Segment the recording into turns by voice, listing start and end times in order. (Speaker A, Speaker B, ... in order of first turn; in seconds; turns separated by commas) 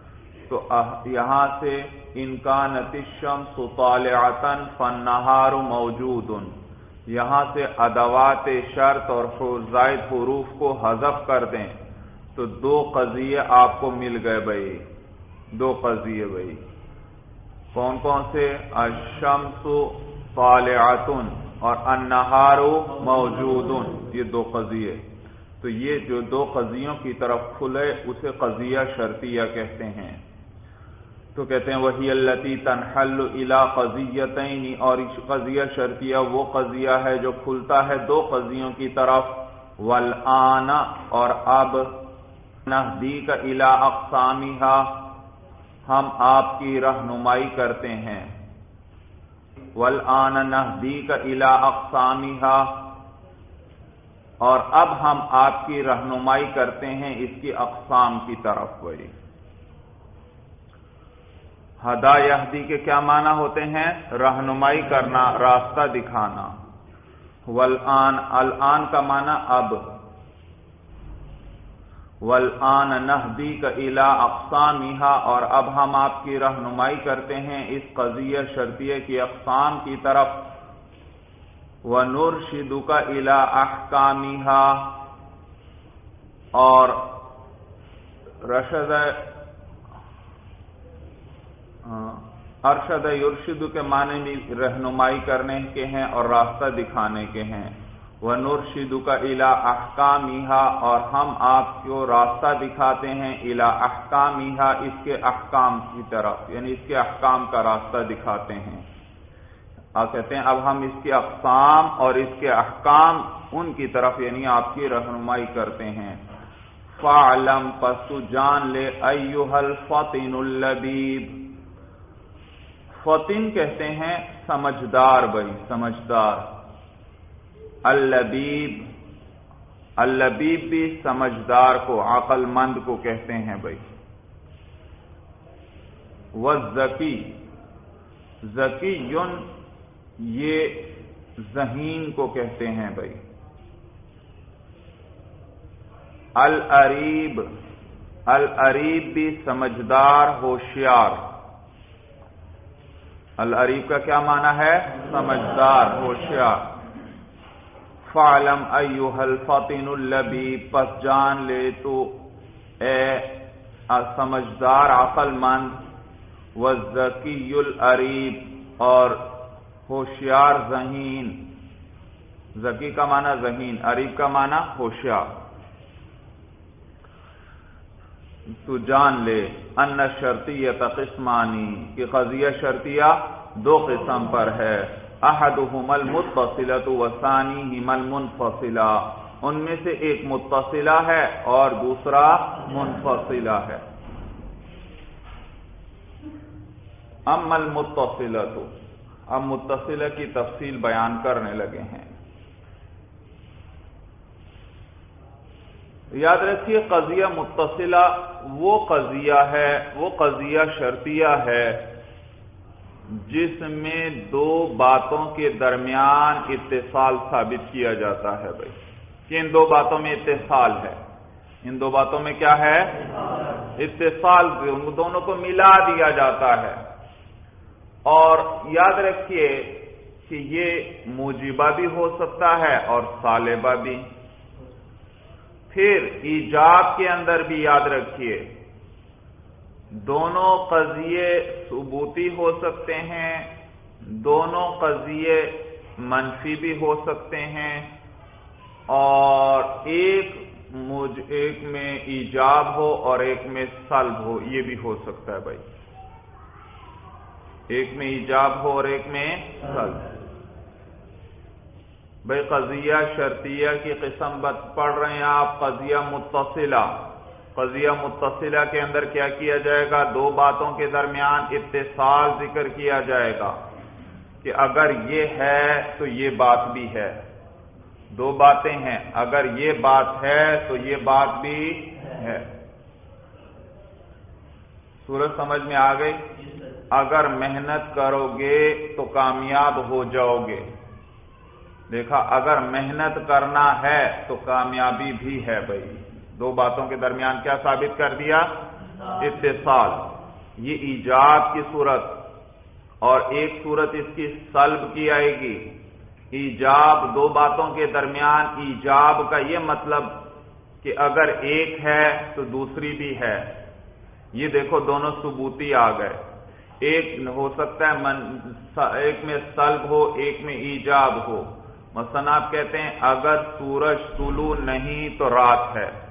Speaker A: 0.5-6.5, Speaker A: 7.1-11.8, Speaker A: 12.3-14.8, Speaker A: 15.5-16.6, Speaker A: 17.7-25.0, Speaker A: 25.6-30.2, Speaker A: 31.3-41.9, Speaker A: 42.6-44.9, Speaker A: 45.9-48.3, Speaker A: 49.8-52.8, Speaker A: 54.4-59.1, Speaker A: 61.8-66.5, Speaker A: 67.5-69.8, Speaker A: 72.2-80.5, Speaker A: 81.8-84.9, Speaker A: 86.5-87.1, Speaker A: 88.4-89.2, Speaker A: 91.8-108.8, Speaker A: 109.9-116.2, Speaker A: 116.9-121.4, Speaker A: 123.0-126.5, Speaker A: 127.8-128.9, Speaker A: 130.0-133.8, Speaker A: 136.3-137.3, Speaker A: 138.4-139.4, Speaker A: 140.2-143.2, Speaker A: 146.4-147.5, Speaker A: 148.3-151.2, Speaker A: 153.4-156.7, Speaker A: 158.1-162.2, Speaker A: 162.8-163.3, Speaker A: 163.9-165.8, Speaker A: 166.5-169.2, Speaker A: 169.9-171.4, Speaker A: 172.5-175.3, Speaker A: 178.6-193.8, Speaker A: 197.3-198.7, Speaker A: 199.3-202.1, Speaker A: 206.1-211.8, Speaker A: 213.1-218.7, Speaker A: 219.3-221.0, Speaker A: 221.6-223.0, Speaker A: 223.8-226.8, Speaker A: 228.1-234.1, Speaker A: 235.7-238.5, Speaker A: 239.9-243.5, Speaker A: 244.0-247.9, Speaker A: 248.9-255.6, Speaker A: 257.7-260.1, Speaker A: 262.2-266.9, Speaker A: 267.5-273.6, Speaker A: 274.4-277.2, Speaker A: 278.1-282.5, Speaker A: 285.0-286.2, Speaker A: 286.9-290.7, Speaker A: 291.9-298.5, Speaker A: 299.1-302.2, Speaker A: 303.0-305.7, Speaker A: 306.3-310.2, Speaker A: 310.8-313.5, Speaker A: 314.3-316.2, Speaker A: 316.8-325.9